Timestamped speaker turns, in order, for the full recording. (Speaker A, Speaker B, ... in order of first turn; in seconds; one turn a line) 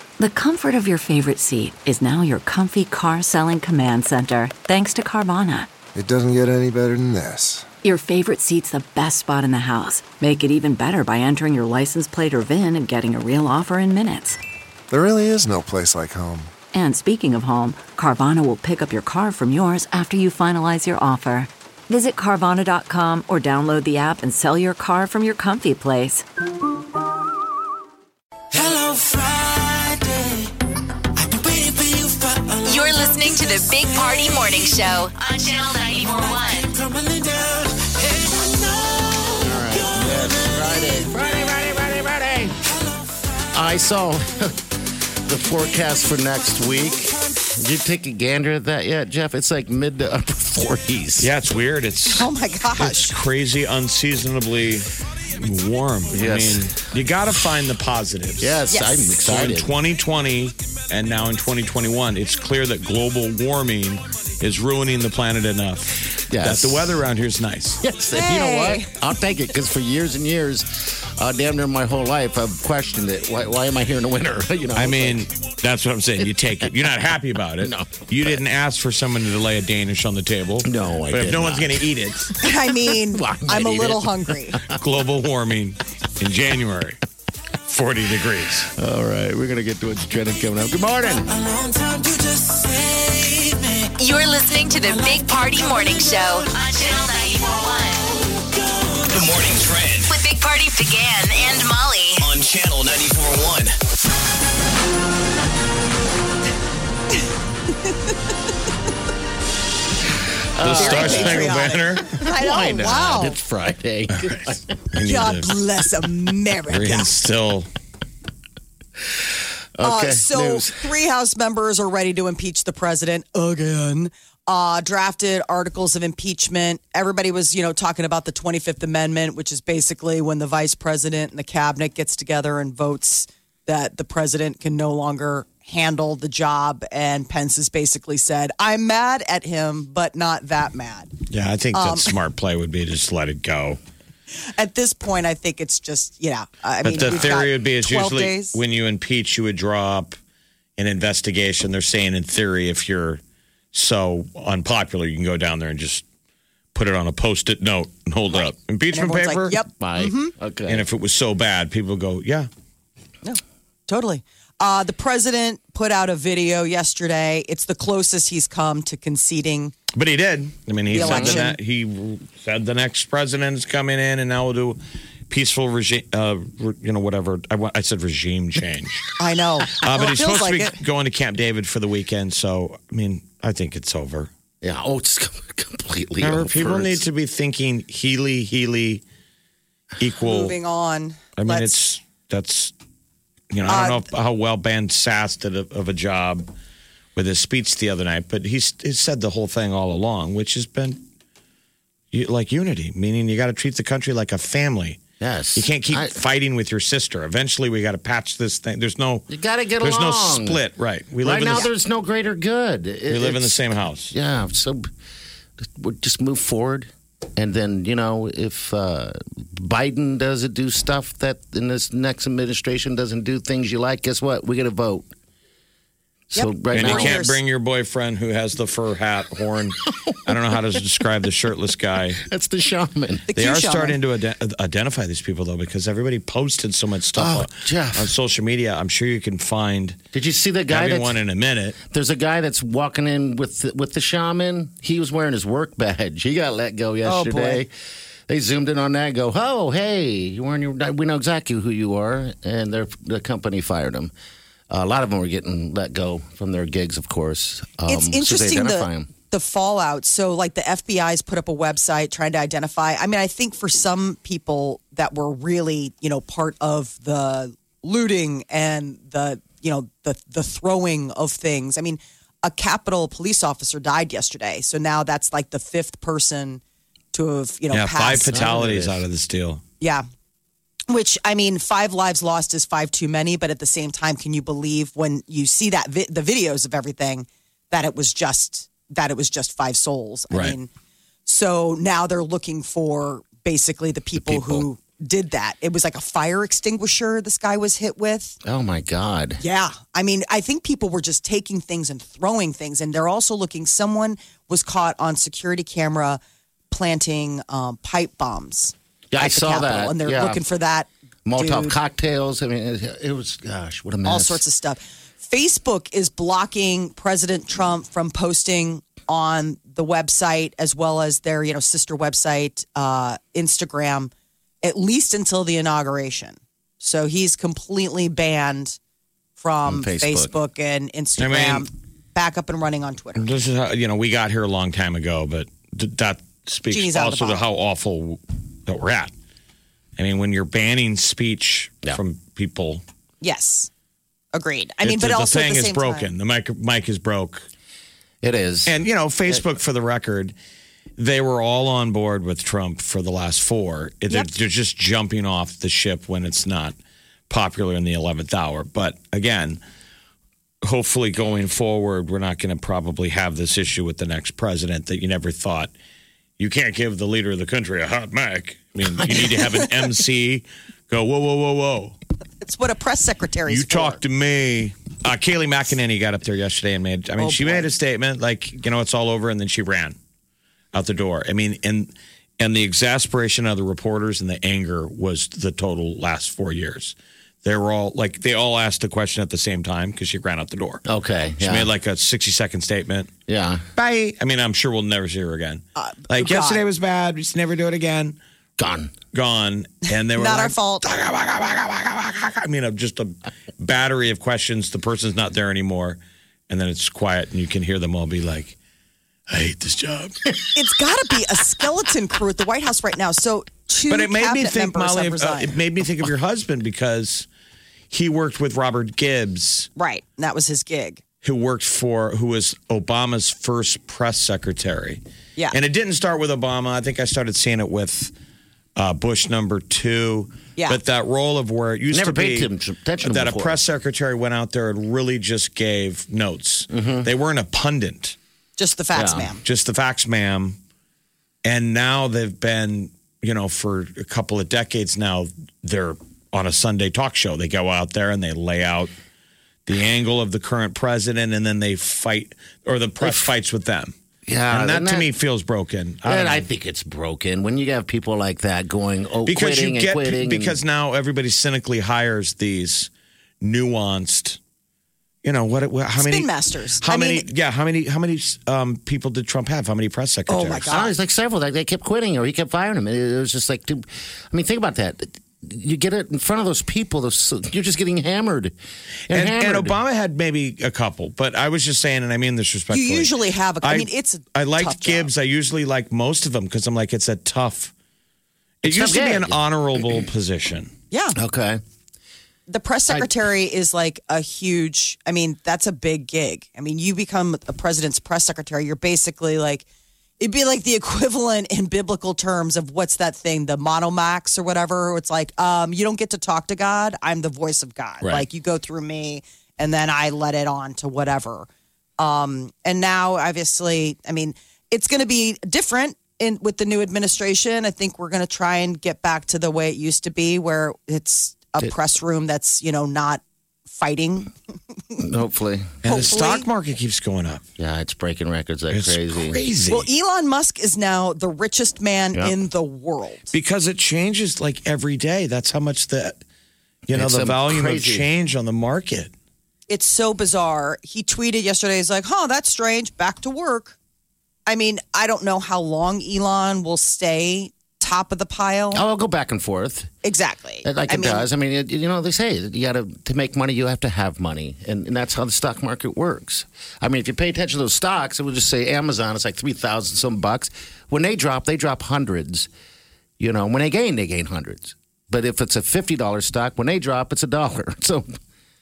Speaker A: 0.2-5.7
Speaker B: 6.0-7.7
Speaker A: 7.8-14.4
Speaker B: 14.9-16.5
Speaker A: 16.7-26.3
Speaker C: 28.5-30.2
Speaker C: 31.2-32.6
Speaker D: 32.6-36.7
Speaker C: 36.9-39.0
Speaker E: 39.4-42.6
Speaker E: 43.5-44.7
Speaker E: 45.3-51.3
Speaker F: 51.2-58.6
Speaker G: 52.1-53.1
Speaker E: 56.1-56.7
Speaker E: 58.4-59.7
Speaker G: 58.7-59.0
Speaker F: 59.2-67.8
Speaker E: 66.3-67.0
Speaker E: 67.8-75.3
Speaker G: 68.1-68.9
Speaker F: 74.8-82.4
Speaker E: 76.2-76.9
Speaker E: 77.6-78.4
Speaker E: 80.6-81.8
Speaker G: 82.4-84.6
Speaker E: 82.7-84.8
Speaker F: 84.8-87.0
Speaker F: 87.7-88.7
Speaker E: 88.7-91.3
Speaker C: 91.4-93.7
Speaker D: 94.0-98.1
Speaker H: 99.1-100.1
Speaker D: 100.1-102.3
Speaker H: 102.2-103.8
Speaker E: 110.6-114.7
Speaker F: 110.6-112.2
Speaker G: 110.7-113.4
Speaker F: 114.1-115.5
Speaker G: 115.1-117.1
Speaker F: 116.7-117.7
Speaker E: 119.8-120.8
Speaker G: 119.8-141.1
Speaker F: 141.3-143.8
Speaker G: 141.7-142.1
Speaker G: 144.5-148.6
Speaker F: 146.8-150.2
Speaker F: 150.8-153.2
Speaker F: 153.7-156.0
Speaker F: 156.7-159.6
Speaker G: 158.3-160.3
Speaker E: 159.8-160.9
Speaker F: 160.7-162.5
Speaker G: 163.2-169.8
Speaker F: 169.9-174.8
Speaker G: 170.9-171.6
Speaker E: 171.0-171.4
Speaker F: 175.3-179.1
Speaker G: 179.2-180.8
Speaker F: 179.8-184.3
Speaker E: 184.6-187.0
Speaker F: 186.2-189.0
Speaker F: 190.0-190.6
Speaker G: 190.2-191.8
Speaker F: 191.4-192.7
Speaker F: 193.5-196.5
Speaker G: 193.7-194.0
Speaker F: 197.2-201.0
Speaker F: 202.1-205.0
Speaker E: 205.2-206.2
Speaker F: 205.5-209.3
Speaker E: 209.3-210.6
Speaker F: 209.8-211.7
Speaker E: 211.2-214.9
Speaker F: 213.1-214.1
Speaker E: 215.6-225.1
Speaker E: 226.3-227.2
Speaker G: 226.3-227.4
Speaker F: 226.7-232.2
Speaker E: 230.1-230.3
Speaker E: 232.2-233.3
Speaker G: 233.3-234.0
Speaker F: 233.3-240.0
Speaker E: 237.2-238.1
Speaker E: 240.1-241.2
Speaker F: 240.7-241.8
Speaker E: 241.9-247.7
Speaker G: 247.0-247.6
Speaker E: 248.3-254.1
Speaker E: 254.7-259.1
Speaker G: 257.9-276.6
Speaker G: 277.1-278.4
Speaker F: 277.7-279.6
Speaker E: 278.3-279.0
Speaker G: 280.9-290.7
Speaker F: 290.3-290.6
Speaker G: 291.2-298.4
Speaker E: 294.2-294.6
Speaker E: 298.4-299.4
Speaker G: 299.4-311.8
Speaker E: 309.1-310.4
Speaker E: 311.2-314.4
Speaker G: 314.0-324.1
Speaker G: 324.6-328.8
Speaker G: 329.4-333.2
Speaker E: 329.6-330.3
Speaker F: 331.2-331.6
Speaker F: 333.1-339.1
Speaker G: 336.7-337.4
Speaker F: 340.0-342.8
Speaker G: 343.2-343.7
Speaker G: 344.3-346.1
Speaker F: 344.8-347.4
Speaker E: 348.2-348.7
Speaker F: 348.6-350.3
Speaker F: 351.0-356.8
Speaker F: 357.3-359.6
Speaker F: 360.6-365.7
Speaker F: 366.4-371.9
Speaker E: 369.0-369.3
Speaker G: 372.4-374.0
Speaker F: 373.5-379.9
Speaker G: 377.2-377.7
Speaker F: 380.7-390.8
Speaker E: 390.9-391.7
Speaker F: 391.4-393.1
Speaker E: 393.3-393.7
Speaker F: 393.8-398.2
Speaker G: 395.8-396.6
Speaker E: 398.6-398.9
Speaker F: 399.1-408.5
Speaker G: 400.1-400.8
Speaker F: 409.3-410.3
Speaker G: 410.5-415.6
Speaker F: 413.9-417.3
Speaker F: 417.9-419.7
Speaker G: 419.8-421.0
Speaker F: 421.2-425.0
Speaker F: 425.5-428.1
Speaker F: 428.8-432.5
Speaker E: 431.9-433.6
Speaker F: 433.0-438.1
Speaker E: 436.7-437.1
Speaker G: 438.6-439.4
Speaker E: 438.9-439.3
Speaker F: 439.4-440.6
Speaker F: 441.4-448.9
Speaker F: 449.6-453.9
Speaker E: 453.0-453.3
Speaker E: 454.2-455.1
Speaker F: 454.5-456.5
Speaker E: 456.1-460.6
Speaker F: 459.2-462.9
Speaker F: 463.4-464.4
Speaker F: 465.2-466.3
Speaker G: 466.0-467.2
Speaker F: 466.8-470.7
Speaker G: 470.3-470.9
Speaker E: 470.6-478.5
Speaker E: 479.1-479.8
Speaker F: 479.1-487.7
Speaker G: 482.7-485.1
Speaker F: 488.6-490.7
Speaker E: 488.6-489.4
Speaker G: 490.9-491.2
Speaker E: 491.1-491.6
Speaker G: 492.5-499.6
Speaker G: 500.2-511.5
Speaker G: 512.0-524.3
Speaker E: 525.0-525.8
Speaker G: 525.9-526.5
Speaker F: 525.9-527.4
Speaker E: 527.6-529.4
Speaker F: 528.7-529.9
Speaker G: 529.7-533.2
Speaker F: 533.3-536.2
Speaker F: 536.9-539.1
Speaker E: 536.9-538.1
Speaker G: 539.7-543.8
Speaker G: 544.5-548.8
Speaker E: 548.7-549.9
Speaker G: 550.0-551.3
Speaker E: 550.6-562.5
Speaker E: 563.2-568.1